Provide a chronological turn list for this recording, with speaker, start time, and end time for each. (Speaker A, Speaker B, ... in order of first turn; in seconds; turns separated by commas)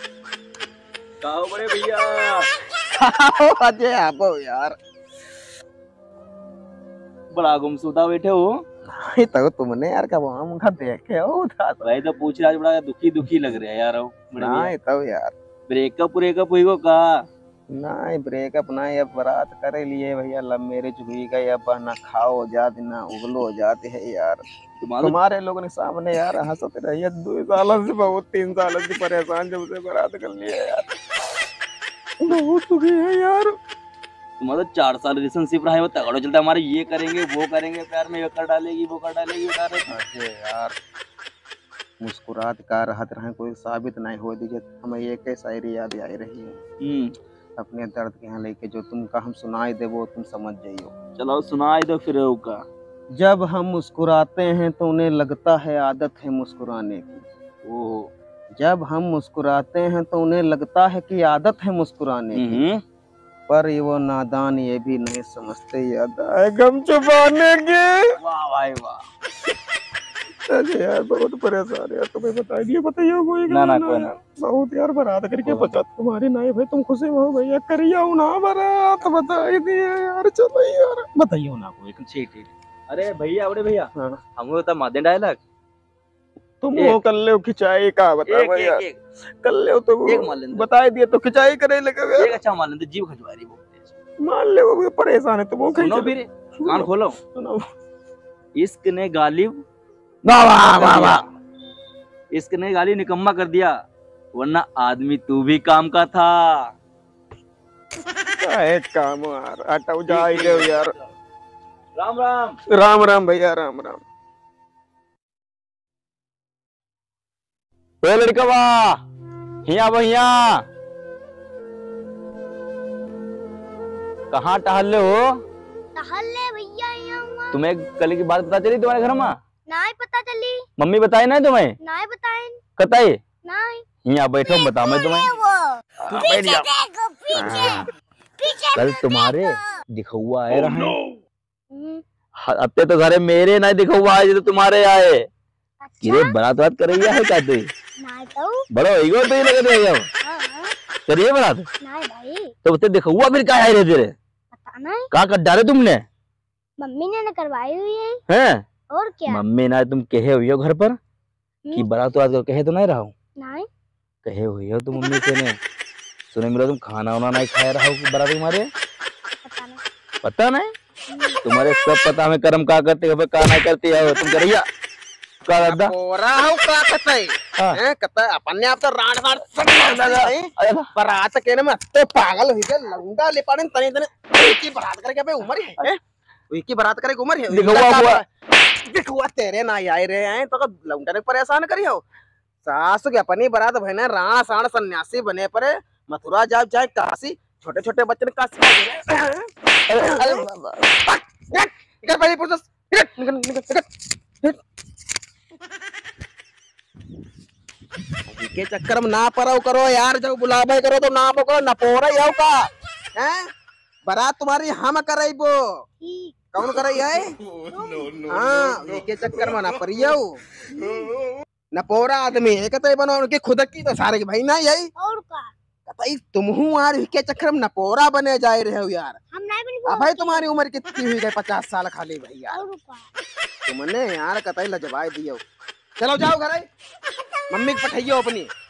Speaker A: 1.2-2.5, Speaker B: 2.9-4.8, Speaker A: 7.3-8.5, Speaker B: 8.9-11.8, Speaker A: 11.8-14.7, Speaker B: 14.3-15.3, Speaker A: 15.7-17.1, Speaker B: 17.7-24.4, Speaker A: 24.8-25.2, Speaker B: 25.0-30.9, Speaker B: 32.2-33.5, Speaker A: 34.4-39.9, Speaker B: 39.9-40.8, Speaker B: 42.0-46.6, Speaker A: 46.8-47.1, Speaker B: 47.6-50.9, Speaker A: 51.2-52.6, Speaker B: 53.2-57.3, Speaker A: 57.7-58.1, Speaker B: 58.6-62.6, Speaker A: 62.3-62.8, Speaker B: 63.5-68.2, Speaker A: 68.2-69.0, Speaker B: 70.5-81.7, Speaker A: 73.5-74.1, Speaker A: 75.5-75.8, Speaker A: 81.7-85.4, Speaker B: 86.6-88.8, Speaker A: 88.3-89.0, Speaker B: 89.4-92.4, Speaker A: 90.1-90.7, Speaker A: 92.2-93.9, Speaker B: 94.2-97.6, Speaker A: 95.8-97.2, Speaker A: 98.6-99.6, Speaker B: 100.2-101.2, Speaker A: 100.7-101.2, Speaker A: 102.3-103.7, Speaker A: 104.4-106.7, Speaker B: 108.4-111.0, Speaker A: 110.1-111.0, Speaker A: 112.0-112.6, Speaker B: 112.7-114.0, Speaker A: 118.0-119.0, Speaker A: 119.7-120.7, Speaker A: 124.3-125.2, Speaker C: 126.0-127.6, Speaker A: 127.5-129.3, Speaker C: 129.7-130.7, Speaker A: 130.8-131.8, Speaker C: 131.8-132.6, Speaker A: 132.8-133.2, Speaker C: 133.4-133.8, Speaker A: 134.1-135.3, Speaker C: 134.6-137.9, Speaker A: 136.1-136.7, Speaker A: 137.5-137.8, Speaker C: 138.4-139.6, Speaker A: 138.7-141.0, Speaker C: 141.7-142.0, Speaker A: 142.4-145.3, Speaker C: 145.8-146.3, Speaker A: 146.0-147.7, Speaker C: 148.0-148.7, Speaker A: 148.7-150.1, Speaker C: 150.2-150.7, Speaker A: 151.1-151.7, Speaker C: 151.8-152.5, Speaker A: 152.6-154.2, Speaker C: 154.5-155.1, Speaker A: 155.1-156.0, Speaker C: 156.8-158.2, Speaker A: 158.3-158.6, Speaker C: 158.9-159.4, Speaker A: 159.3-161.0, Speaker A: 161.7-163.1, Speaker C: 163.4-163.7, Speaker A: 164.2-165.6, Speaker A: 166.3-168.7, Speaker C: 169.4-169.8, Speaker A: 170.2-170.7, Speaker C: 171.1-171.4, Speaker A: 171.4-174.7, Speaker A: 175.4-175.9, Speaker B: 175.5-186.0, Speaker A: 179.7-180.9, Speaker B: 186.5-188.3, Speaker A: 187.5-188.2, Speaker B: 188.8-192.0, Speaker B: 192.6-200.5, Speaker A: 199.9-200.7, Speaker B: 201.0-203.9, Speaker B: 208.3-212.6, Speaker B: 213.2-213.5, Speaker B: 214.1-215.8, Speaker C: 216.0-216.5, Speaker B: 216.5-217.4, Speaker C: 217.7-218.2, Speaker B: 218.3-220.4, Speaker C: 220.8-221.1, Speaker B: 221.7-224.9, Speaker C: 225.0-225.5, Speaker B: 225.9-229.2, Speaker C: 229.3-230.5, Speaker B: 229.9-232.7, Speaker C: 232.5-233.1, Speaker B: 233.7-235.4, Speaker B: 236.0-236.7, Speaker B: 237.5-238.5